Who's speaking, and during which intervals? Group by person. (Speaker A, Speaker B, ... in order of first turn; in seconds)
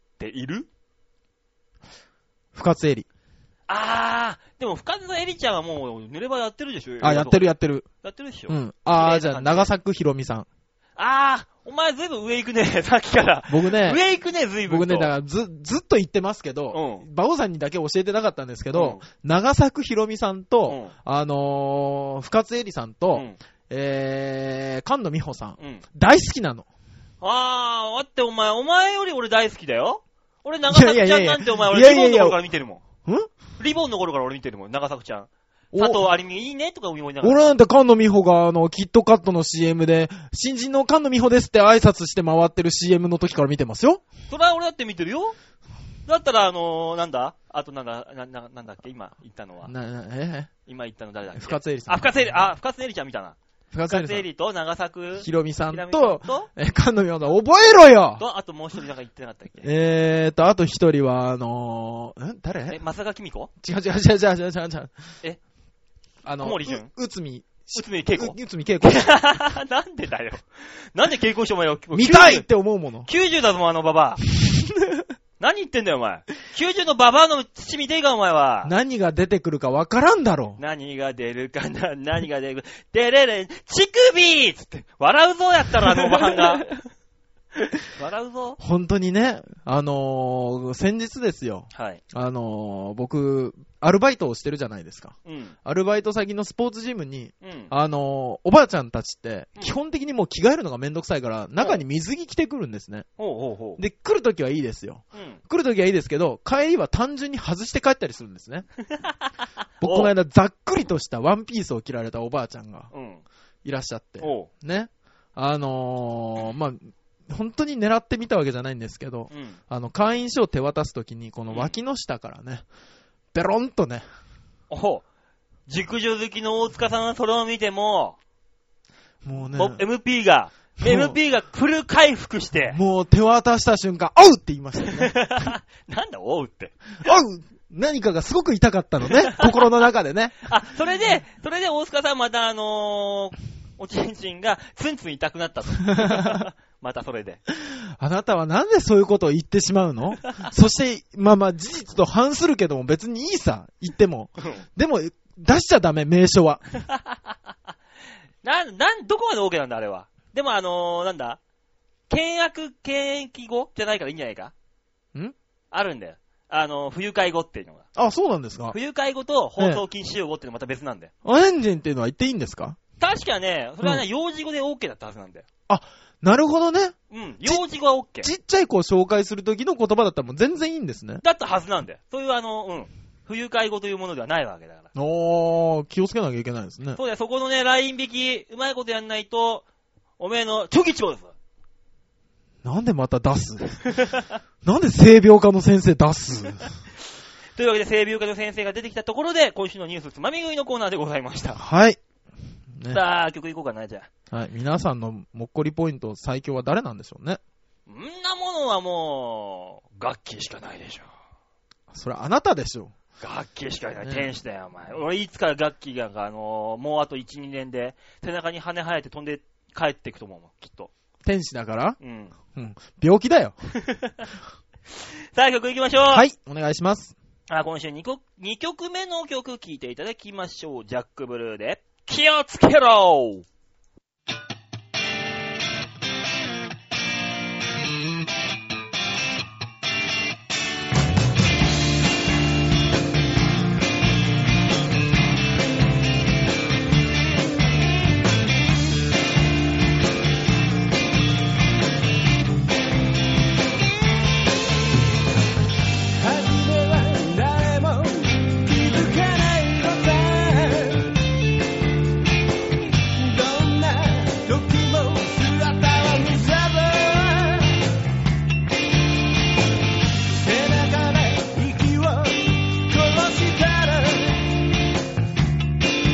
Speaker A: 0.2-0.7, 3.7-9.7, 11.0-15.1, 16.7-17.0, 18.7-19.0, 20.7-20.9, 27.2-32.8, 33.6-37.5, 44.3-45.4, 46.1-49.7, 50.7-53.4, 53.9-56.5, 58.2-59.7, 62.7-63.5, 66.4-66.9, 67.7-72.5, 73.1-74.2, 75.4-78.7, 80.6-86.7, 87.9-88.6, 91.7-92.0, 95.2-95.5, 97.4-97.7, 103.2-103.8, 108.9-109.3, 109.8-110.1, 112.9-113.2, 114.2-114.5, 119.3-119.6, 121.5-121.7, 124.7-125.0, 125.7-128.2, 129.5-132.8, 134.8-136.7, 139.2-139.7, 140.4-147.4, 158.4-161.4, 162.1-164.5, 165.7-167.8, 168.7-171.1, 173.0-175.4, 177.1-178.3, 181.2-184.9, 186.9-189.6, 190.2-191.3, 193.9-194.3, 197.6-201.6, 202.9-204.1, 207.9-211.1, 213.2-220.9, 222.0-222.3, 223.8-224.3, 225.3-226.2, 227.5-233.4
Speaker B: 2.5-3.1, 7.0-7.8, 8.5-10.5, 13.5-14.0, 14.7-26.6, 30.7-32.4, 35.7-36.1, 37.2-44.0, 49.6-50.5, 51.3-52.2, 53.7-54.2, 55.2-58.2, 59.6-62.8, 63.6-64.9, 66.2-69.1, 71.9-73.1, 74.4-75.0, 78.6-80.6, 88.6-103.0, 103.8-108.7, 109.8-112.9, 113.6-122.6, 123.3-124.0, 129.2-129.8, 130.8-131.2, 132.7-135.2, 137.0-140.3, 145.9-146.4, 147.7-156.6, 167.9-168.8, 169.6-169.8, 171.2-172.8, 175.7-177.6, 178.2-181.2, 184.9-187.0, 192.6-193.8, 194.6-196.7, 201.6-202.0, 204.3-207.4, 211.9-212.9, 214.0-214.3, 221.2-222.0, 222.5-223.5, 226.1-227.1
Speaker C: 256.1-261.2, 263.1-267.8, 270.3-274.5